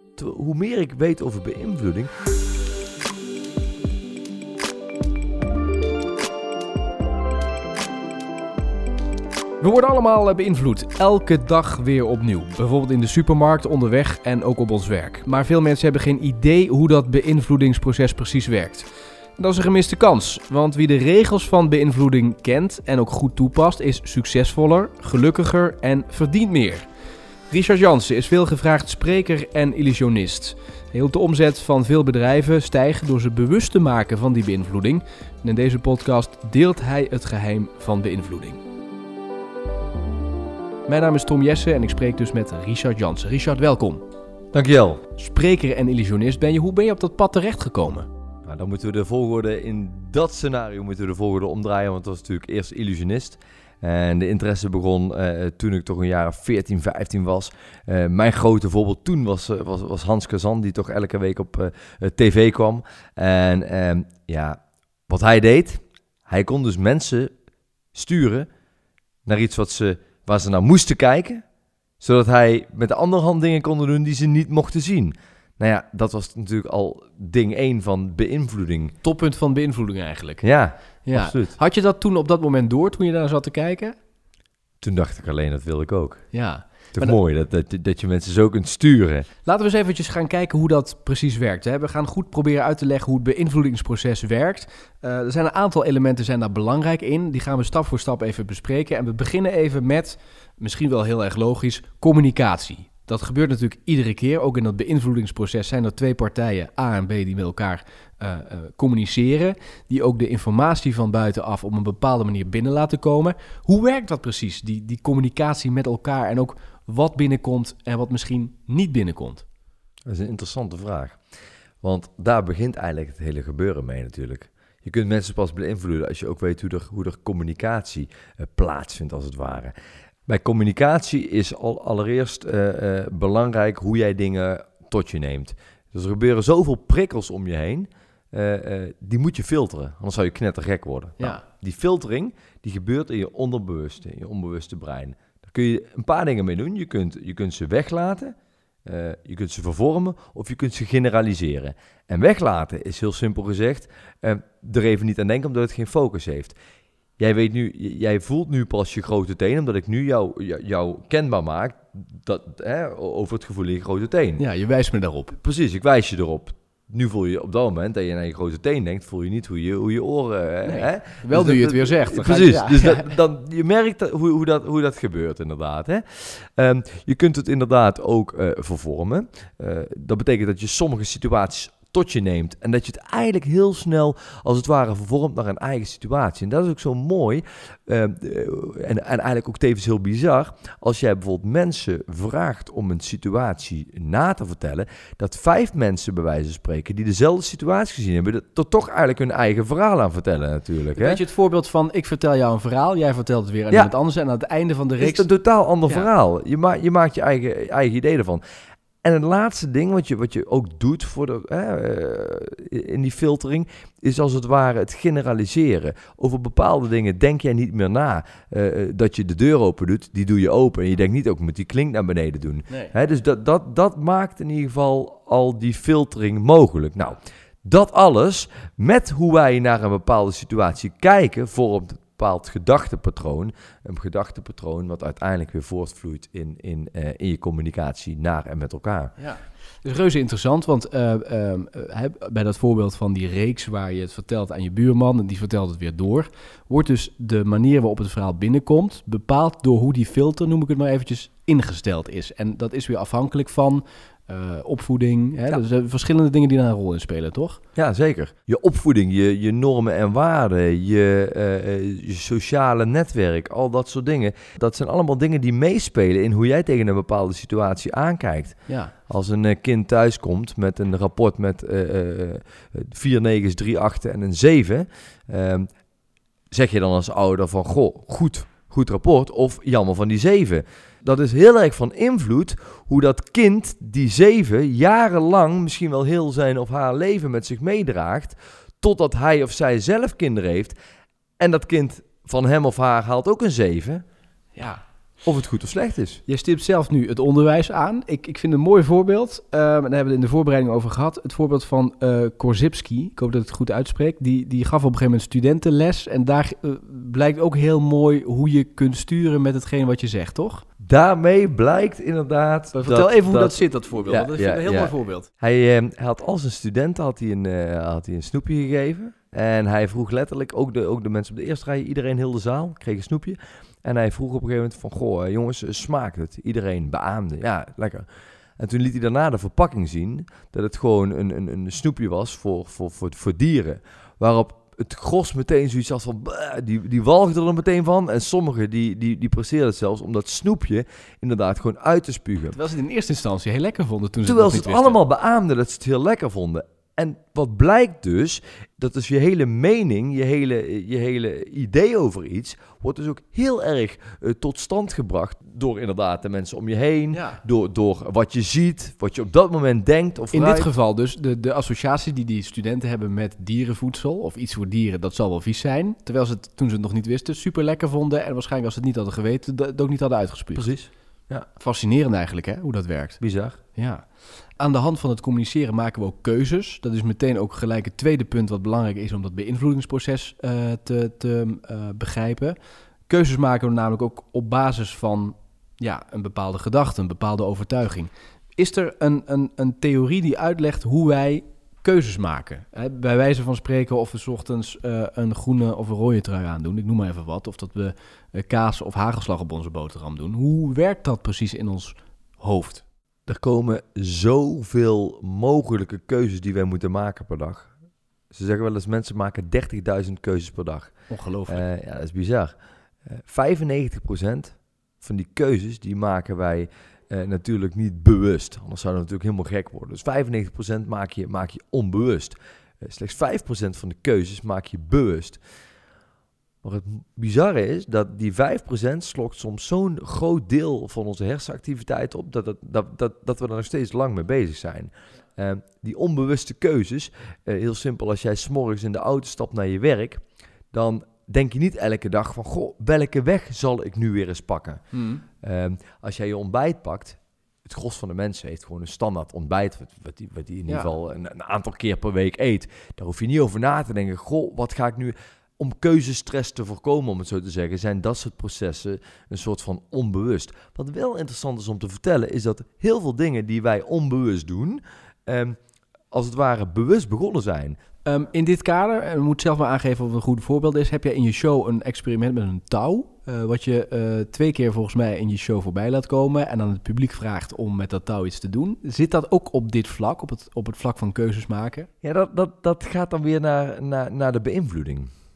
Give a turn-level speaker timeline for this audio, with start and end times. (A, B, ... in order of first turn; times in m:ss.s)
0:00.2-0:02.1 A
0:09.6-0:26.9 B
0:27.5-0:38.6 B
0:40.9-0:44.0 B
0:44.5-0:45.0 A
0:45.2-0:48.1 B
0:48.4-1:07.3 A
1:07.9-1:08.5 A
1:09.2-1:11.4 A
1:12.0-1:18.9 A
1:19.0-1:20.4 B
1:20.4-1:21.6 A
1:21.0-1:24.0 B
1:24.8-1:26.2 A
1:26.3-1:27.2 B
1:26.9-1:29.3 A
1:29.4-1:59.4 B
2:00.1-2:01.2 A
2:01.8-2:09.7 A
2:10.3-2:28.3 A
2:28.8-2:36.6 A
2:37.2-2:44.4 A
2:44.4-2:45.4 B
2:45.3-3:21.2 A
2:50.6-2:53.1 B
3:20.9-3:25.3 B
3:25.0-3:28.4 A
3:29.0-3:59.1 A
3:59.2-4:17.6 B
4:17.7-4:35.7 A
4:28.7-4:28.9 B
4:36.5-4:50.7 A
4:51.4-4:54.0 A
4:54.5-4:54.8 B
4:55.2-4:56.2 A
4:56.3-5:10.6 B
5:10.8-5:28.0 A
5:12.7-5:15.3 B
5:28.6-5:42.6 A
5:42.5-5:45.0 B
5:44.2-6:00.7 A
5:57.1-5:57.4 B
6:00.3-6:10.7 B
6:10.5-6:11.5 A
6:11.6-6:13.2 B
6:13.2-6:13.6 A
6:13.7-6:22.6 B
6:23.1-6:42.8 B
6:43.3-6:47.7 A
6:48.3-6:50.9 A
6:51.1-6:51.6 B
6:51.5-6:52.5 A
6:53.0-7:05.4 A
7:06.6-7:24.8 A
7:24.9-7:25.2 B
7:25.4-7:45.6 A
7:46.1-7:47.8 A
7:48.0-8:01.9 B
8:02.0-8:05.1 A